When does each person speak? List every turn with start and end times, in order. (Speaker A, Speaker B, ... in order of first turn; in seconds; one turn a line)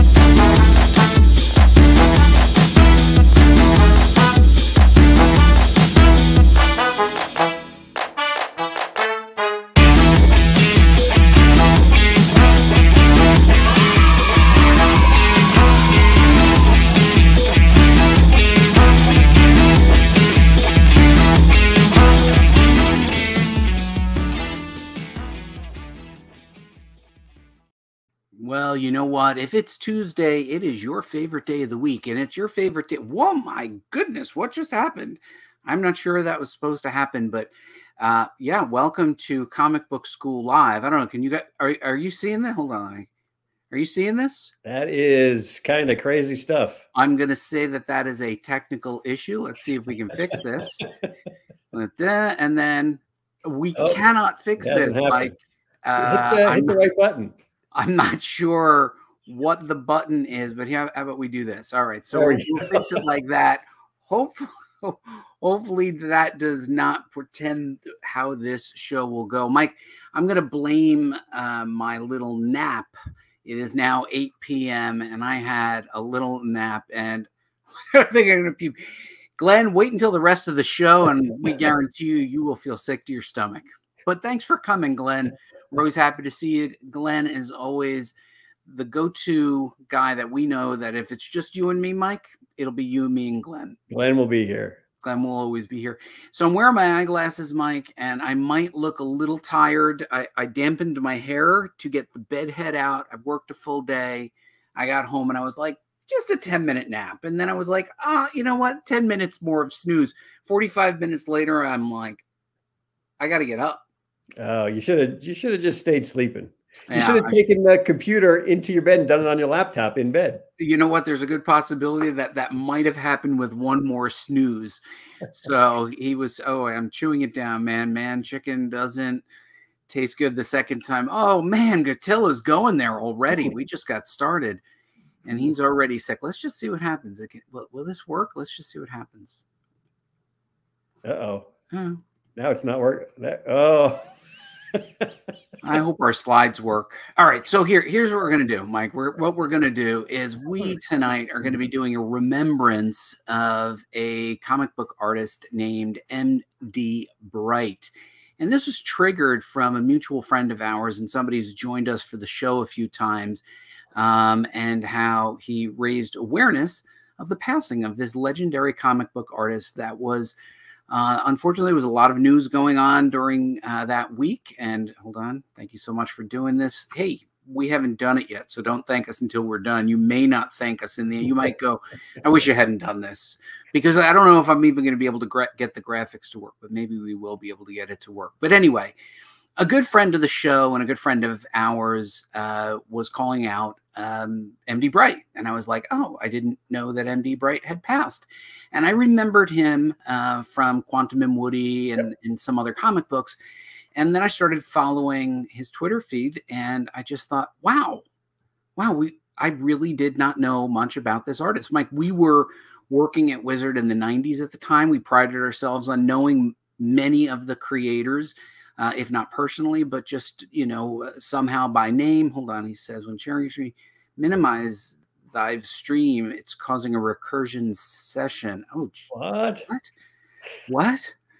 Speaker A: 28.4-43.1
Speaker A: 43.7-44.5
Speaker B: 44.6-46.8
Speaker A: 46.9-50.8
Speaker A: 51.7-55.3
Speaker B: 53.8-54.0
Speaker B: 54.6-55.3
Speaker A: 55.8-56.8
Speaker B: 56.0-57.3
Speaker A: 57.7-72.9
Speaker B: 62.1-63.0
Speaker A: 73.4-77.3
Speaker A: 77.9-78.8
Speaker A: 79.4-88.1
Speaker A: 88.7-93.8
Speaker B: 93.9-94.8
Speaker A: 95.0-112.2
Speaker A: 113.2-113.8
Speaker B: 114.4-120.4
Speaker A: 116.9-117.4
Speaker A: 120.6-124.8
Speaker A: 125.3-129.2
Speaker A: 129.9-134.6
Speaker A: 135.2-139.4
Speaker B: 141.0-141.5
Speaker A: 141.7-142.0
Speaker B: 142.3-144.1
Speaker B: 144.7-145.1
Speaker A: 145.6-163.4
Speaker A: 163.9-170.3
Speaker A: 170.9-188.9
Speaker A: 189.6-203.4
Speaker A: 203.9-208.0
Speaker A: 208.8-229.1
Speaker B: 229.1-229.7
Speaker A: 230.7-231.1